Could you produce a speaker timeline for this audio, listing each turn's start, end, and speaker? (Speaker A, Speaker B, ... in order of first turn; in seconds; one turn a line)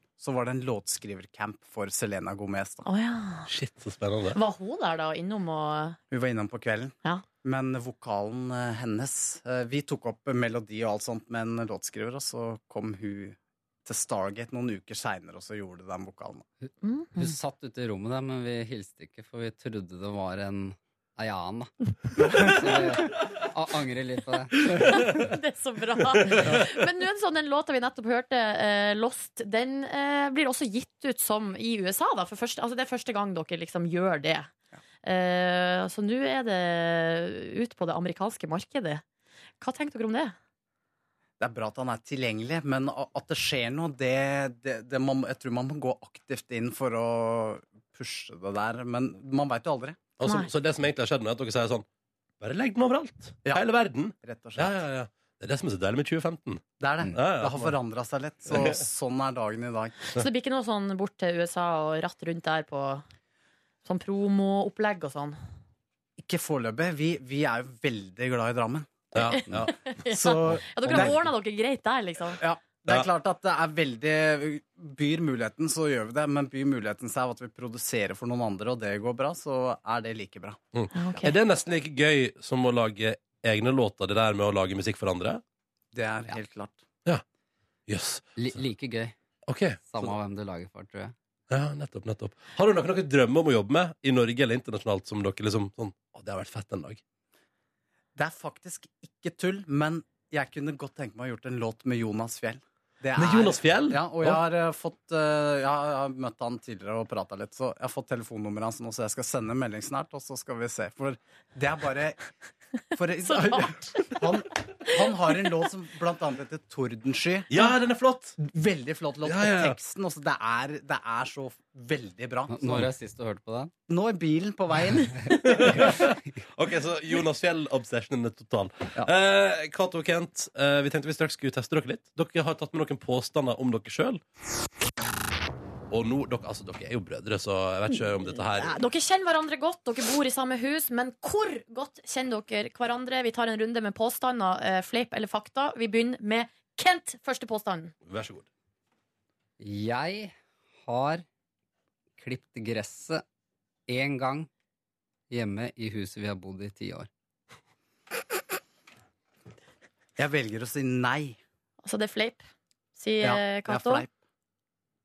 Speaker A: 0.2-2.9
Speaker B: 2.9-3.5
Speaker C: 3.5-4.4
Speaker B: 4.3-6.0
Speaker A: 6.1-16.4
Speaker B: 16.8-17.3
Speaker D: 17.2-25.1
Speaker B: 24.8-34.5
Speaker B: 35.0-39.0
Speaker B: 39.6-40.4
Speaker A: 41.4-50.0
Speaker C: 50.2-51.9
Speaker C: 52.4-57.8
Speaker A: 54.2-54.8
Speaker A: 56.8-60.0
Speaker B: 60.1-63.0
Speaker B: 63.9-65.4
Speaker A: 66.2-69.1
Speaker C: 69.1-69.7
Speaker B: 69.2-72.4
Speaker A: 70.1-71.2
Speaker A: 72.4-80.6
Speaker C: 80.7-85.4
Speaker B: 80.9-81.4
Speaker A: 85.9-86.8
Speaker C: 87.9-88.5
Speaker D: 88.4-89.1
Speaker C: 89.5-90.1
Speaker D: 89.8-91.1
Speaker C: 91.5-97.0
Speaker A: 98.2-112.2
Speaker C: 103.2-104.4
Speaker A: 113.0-117.5
Speaker B: 113.2-114.2
Speaker C: 117.5-118.4
Speaker A: 118.4-122.9
Speaker C: 119.2-119.8
Speaker D: 122.5-123.7
Speaker A: 123.9-125.4
Speaker C: 125.4-134.2
Speaker C: 135.9-138.8
Speaker B: 138.5-147.9
Speaker C: 148.1-148.5
Speaker D: 149.6-151.2
Speaker D: 152.2-153.2
Speaker D: 153.9-154.5
Speaker D: 155.3-157.1
Speaker A: 160.2-161.4
Speaker B: 161.8-162.4
Speaker B: 163.0-164.0
Speaker A: 163.2-164.1